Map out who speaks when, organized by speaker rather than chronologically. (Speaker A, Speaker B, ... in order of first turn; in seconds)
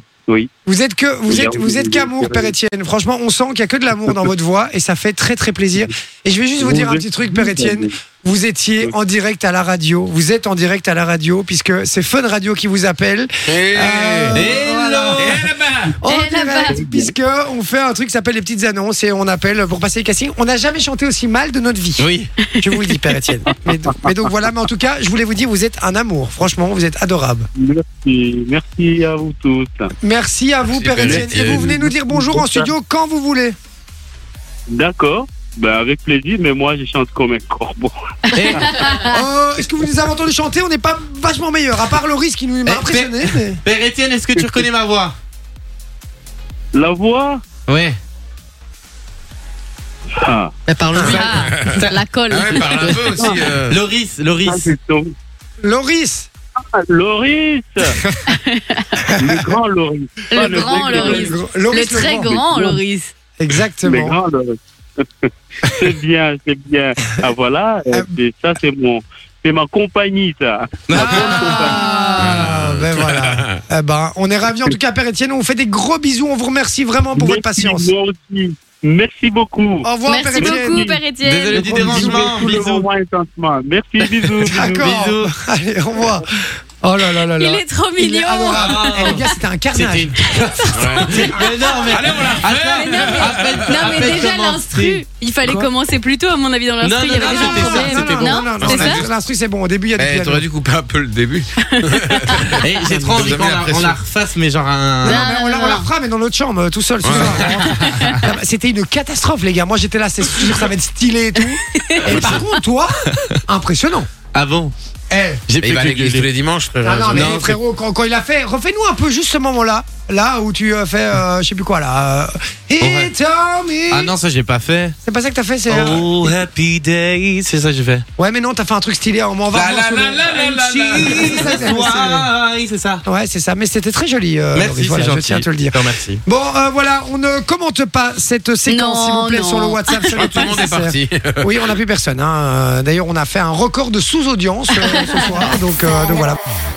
Speaker A: 0.6-15.5, 16.0-27.5, 30.0-33.5, 39.0-43.6, 50.9-51.3, 55.6-56.3, 59.0-59.5, 60.4-62.8, 63.4-64.2, 70.9-77.9, 79.8-80.8, 81.7-82.3, 84.4-90.2, 97.2-100.5, 105.0-114.1, 115.1-115.4, 116.8-124.1, 125.0-126.4, 128.2-130.4, 131.0-132.3, 133.0-146.4
Speaker B: 1.3-2.5, 6.6-7.9, 16.7-17.1, 27.6-29.9, 31.0-32.7, 34.7-38.9, 44.4-44.6, 46.7-47.4, 50.2-50.5, 54.4-55.1, 56.7-58.0, 59.2-61.4, 63.8-71.8, 77.1-80.0, 80.5-84.9
Speaker C: 13.5-14.6, 15.2-15.9, 30.6-31.7, 51.4-53.8, 72.2-73.6, 90.7-94.2, 98.6-99.1, 100.0-104.0, 107.0-108.2, 112.0-112.5, 115.6-117.4, 129.5-131.6
Speaker D: 14.3-15.5, 22.0-22.3, 38.3-38.6, 42.6-45.1, 47.7-48.0, 50.7-53.0, 53.7-54.7, 70.9-71.5, 81.2-82.8, 84.5-85.3, 88.5-89.2, 89.7-95.0, 96.8-98.2, 102.6-105.3, 114.3-114.7, 115.5-116.3, 117.1-117.6, 122.8-123.1, 123.9-125.0, 125.7-128.0, 130.2-133.0, 134.5-136.2, 140.1-141.7
Speaker E: 16.0-16.8, 38.3-39.1, 51.0-53.2, 58.3-58.9, 60.3-63.1, 71.4-72.4, 80.0-82.1, 87.1-89.2, 90.3-91.3, 92.5-99.1, 101.7-102.5, 105.0-105.9, 107.2-108.2, 111.7-112.1, 138.7-140.4, 144.9-145.6